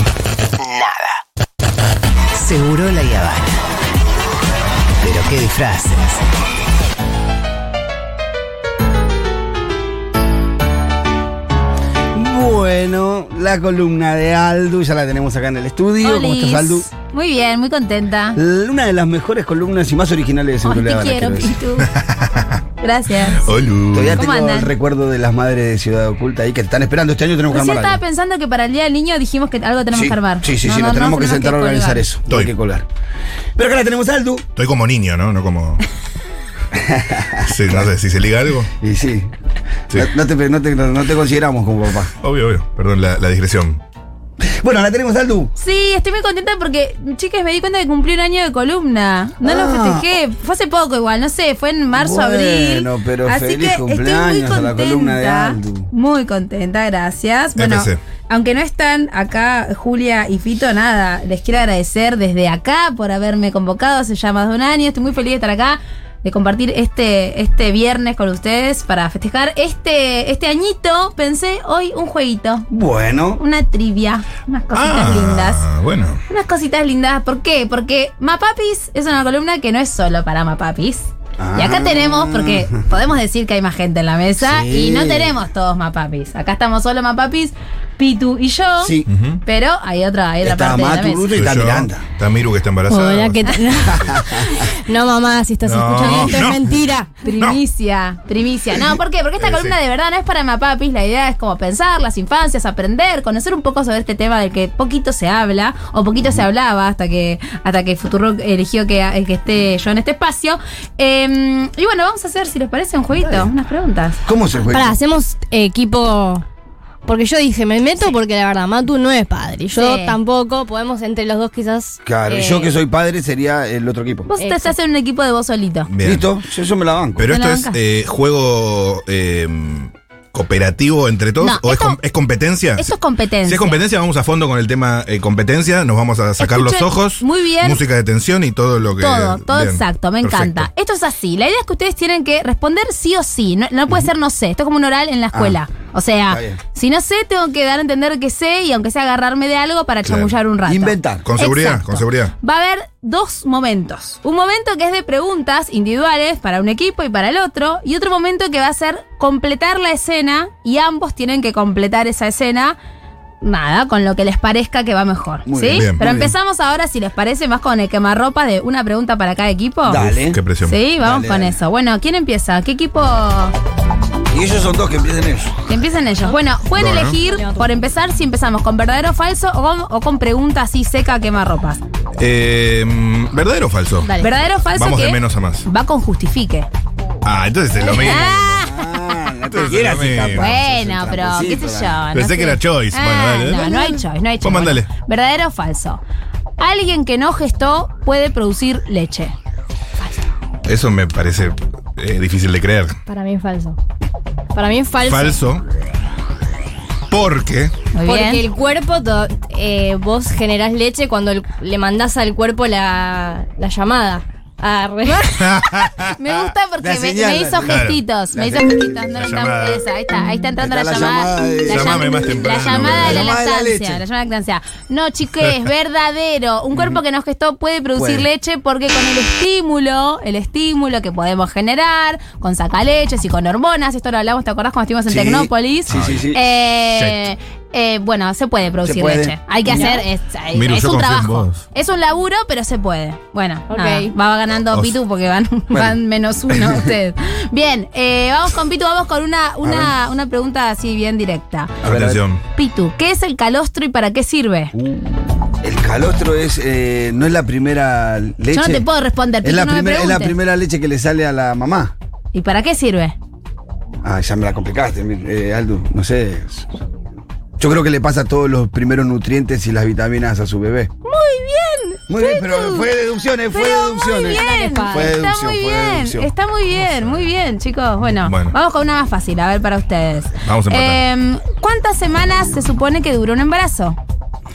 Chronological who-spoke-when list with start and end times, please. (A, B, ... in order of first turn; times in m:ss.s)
0:00.6-0:01.1 A
0:02.3-0:03.6 A
0:05.0-0:06.2 A
0:12.1-0:16.8 B
0:16.0-0:18.4 C
0:18.4-0:21.6 B
0:20.6-0:21.9 C
0:21.9-0:22.6 D
0:22.8-0:24.7 C
0:23.4-0:24.2 D
0:23.9-0:28.0 B
0:27.5-0:32.0 C
0:29.9-0:32.8 B
0:33.6-0:34.4 B
0:34.6-0:35.8 D
0:36.7-0:37.9 B
0:37.4-0:38.7 D
0:38.8-0:39.3 B
0:39.9-0:42.1 B
0:42.2-0:43.8 D
0:44.4-0:45.5 B
0:45.6-1:12.7 C
0:49.4-0:50.1 B
0:51.9-0:55.9 B
0:57.6-0:58.0 D
1:12.7-1:13.4 B
1:13.4-1:15.6 C
1:14.7-1:16.2 D
1:16.3-1:31.3 C
1:21.4-1:22.8 B
1:24.4-1:25.4 B
1:28.8-1:29.1 B
1:29.1-1:29.4 D
1:30.4-1:32.1 B
1:31.3-1:34.1 D
1:32.9-1:37.1 E
1:33.9-1:34.6 B
1:35.6-1:37.6 D
1:37.2-1:54.2 C
1:39.4-1:39.8 D
1:53.2-1:53.5 B
1:54.2-1:55.0 B
1:54.6-1:56.4 E
1:57.0-2:02.7 E
1:59.7-2:00.2 C
2:02.0-2:04.3 B
2:04.3-2:05.9 C
2:04.4-2:04.7 E
2:05.9-2:06.3 D
2:06.0-2:07.3 B
2:07.2-2:12.9 D
2:07.3-2:07.8 C
2:11.4-2:12.0 C
2:12.8-2:13.8 C
2:13.4-2:20.7 D
2:16.4-2:17.8 C
2:19.0-2:42.8 C
2:25.3-2:25.6 B
2:26.3-2:26.6 B
2:30.0-2:30.3 D
2:30.7-2:31.3 B
2:31.2-2:32.3 D
2:43.4-2:50.0 C
2:45.4-2:46.3 B
2:45.7-2:46.0 D
2:49.8-2:50.4 B
2:49.9-2:50.8 D
2:50.6-2:53.5 C
2:51.0-2:51.6 B
2:54.3-2:55.5 B
2:55.6-3:01.8 C
2:56.7-2:57.2 D
2:57.2-2:57.8 E
3:02.2-3:04.1 D
3:04.0-3:04.4 E
3:04.2-3:06.7 C
3:04.6-3:05.6 D
3:07.2-3:08.6 D
3:07.8-3:09.2 C
3:08.3-3:12.0 B
3:09.5-3:10.5 D
3:10.3-3:16.0 C
3:12.1-3:14.9 D
3:16.6-3:19.3 C
3:20.6-3:23.0 D
3:23.1-3:23.8 E
3:24.5-3:25.4 E
3:25.0-3:25.6 D
3:27.1-3:27.7 D
3:27.9-3:28.4 C
3:28.0-3:35.3 E
3:35.1-4:11.8 C
3:35.3-3:36.3 D
3:36.8-3:39.0 B
3:37.6-3:38.0 D
3:39.1-3:39.8 D
3:40.6-3:44.0 B
3:41.6-3:43.3 D
3:48.0-3:48.3 B
3:55.1-3:56.4 B
3:55.9-3:56.3 D
3:56.9-3:57.3 D
3:58.8-3:59.8 B
3:59.7-4:00.0 E
4:00.5-4:01.6 D
4:03.7-4:04.1 E
4:04.6-4:05.0 D
4:05.7-4:06.0 B
4:06.5-4:06.9 B
4:09.6-4:10.0 B
4:11.8-4:12.2 B
4:11.8-4:12.4 D
4:12.5-4:14.7 C
4:14.7-4:18.9 B
4:18.5-4:20.3 C
4:19.4-4:21.9 B
4:22.3-4:23.2 C
4:24.0-4:26.7 B
4:27.6-4:30.9 B
4:31.0-4:32.9 C
4:32.1-4:36.3 B
4:33.5-4:44.0 C
4:34.2-4:35.1 E
4:36.9-4:37.2 D
4:38.0-4:38.6 D
4:40.4-4:41.0 D